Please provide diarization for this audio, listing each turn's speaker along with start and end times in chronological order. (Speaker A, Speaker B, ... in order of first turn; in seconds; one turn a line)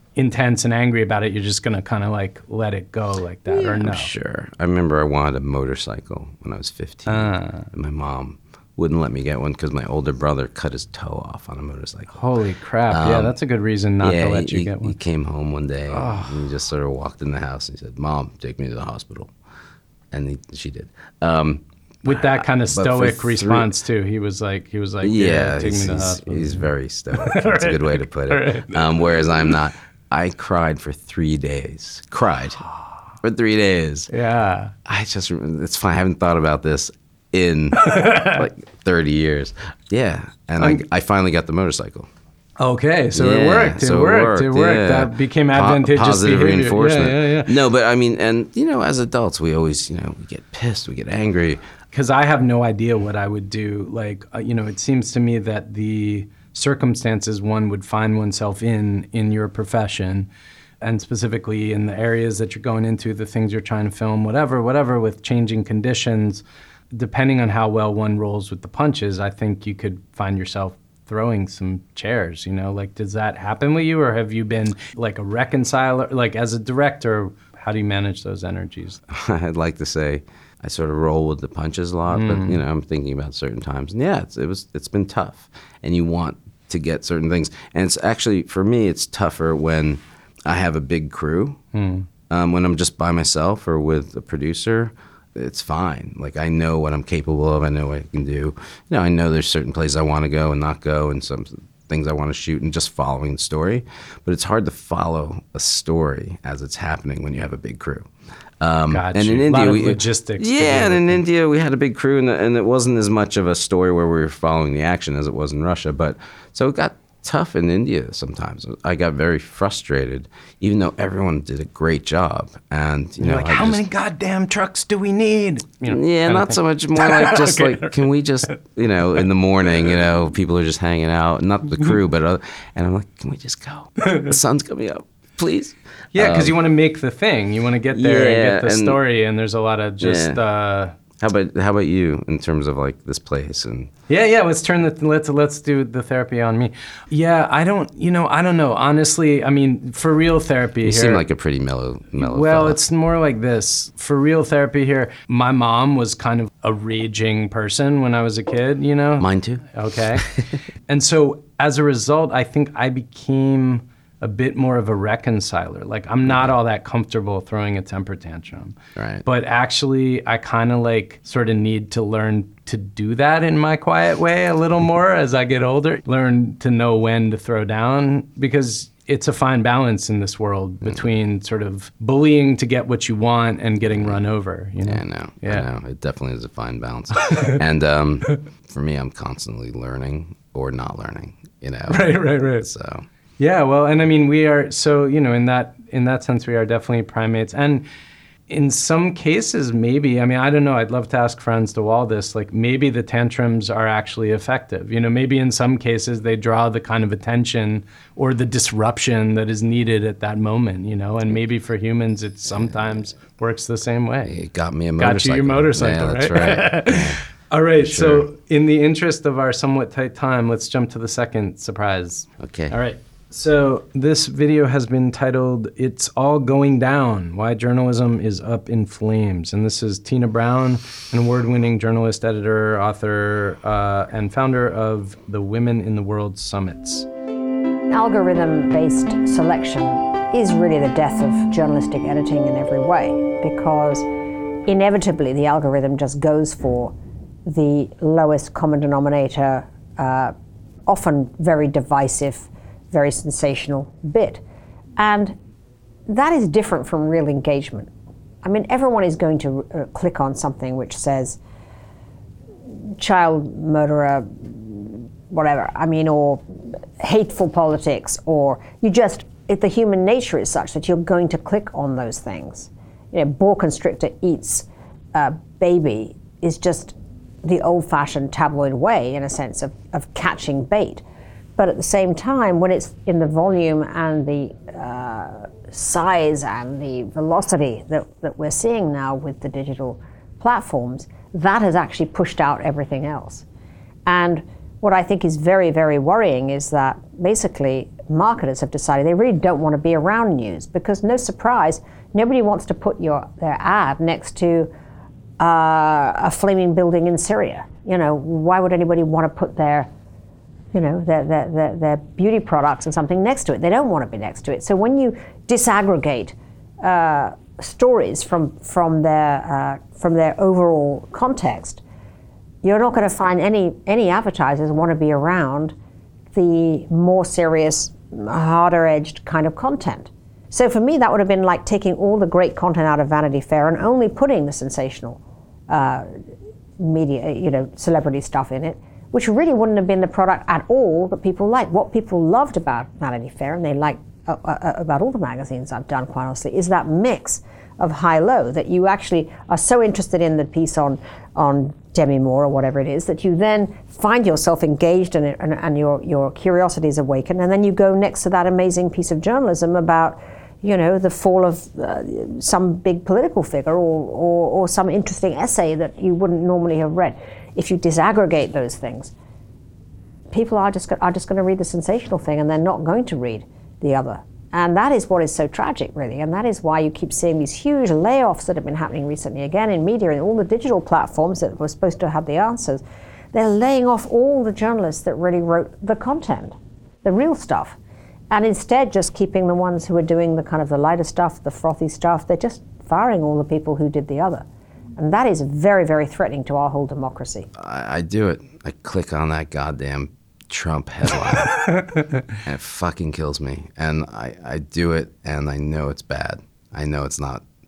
Speaker A: 0.1-4.1
Speaker B: 3.5-12.2
Speaker A: 7.1-7.7
Speaker A: 12.1-14.9
Speaker B: 12.9-13.3
Speaker B: 14.0-19.3
Speaker A: 15.9-16.4
Speaker B: 20.1-23.7
Speaker A: 22.0-28.8
Speaker B: 25.0-32.6
Speaker B: 33.2-34.1
Speaker A: 34.1-34.7
Speaker B: 34.9-42.1
Speaker A: 37.8-38.4
Speaker A: 42.6-47.5
Speaker B: 43.1-51.6
Speaker A: 51.9-60.3
Speaker A: 60.8-79.0
Speaker B: 79.1-91.6
Speaker A: 82.1-82.6
Speaker A: 91.7-92.1
Speaker B: 92.3-108.1
Speaker B: 108.6-123.8
Speaker A: 108.9-111.2
Speaker A: 123.2-128.0
Speaker B: 125.8-136.6
Speaker A: 136.1-140.9
Speaker B: 137.9-139.0
Speaker B: 140.0-140.4
Speaker B: 141.2-143.9
Speaker A: 144.1-151.2
Speaker B: 150.8-152.8
Speaker A: 152.1-160.2
Speaker B: 159.2-159.6
Speaker A: 160.9-185.7
Speaker B: 168.9-169.2
Speaker B: 184.8-193.1
Speaker A: 187.3-187.5
Speaker A: 191.9-192.7
Speaker A: 193.4-197.8
Speaker A: 198.5-214.4
Speaker B: 214.2-217.2
Speaker A: 215.0-237.1
Speaker B: 217.8-218.2
Speaker B: 222.4-222.7
Speaker C: 237.9-244.1
Speaker C: 244.7-246.9
Speaker C: 247.4-250.3
Speaker C: 250.9-254.4
Speaker C: 255.0-255.3
Speaker C: 256.1-257.9
Speaker C: 258.4-261.4
Speaker C: 263.0-266.4
Speaker C: 267.0-281.0
Speaker C: 281.6-293.4
Speaker C: 294.1-304.7
Speaker C: 305.4-309.9
Speaker C: 310.7-321.8
Speaker C: 322.6-325.7
Speaker C: 326.3-336.1
Speaker C: 336.8-369.1
Speaker C: 370.3-382.8
Speaker C: 383.3-387.8
Speaker C: 388.3-394.4
Speaker C: 395.0-397.5
Speaker B: 397.6-401.6
Speaker A: 401.6-402.2
Speaker B: 402.4-407.4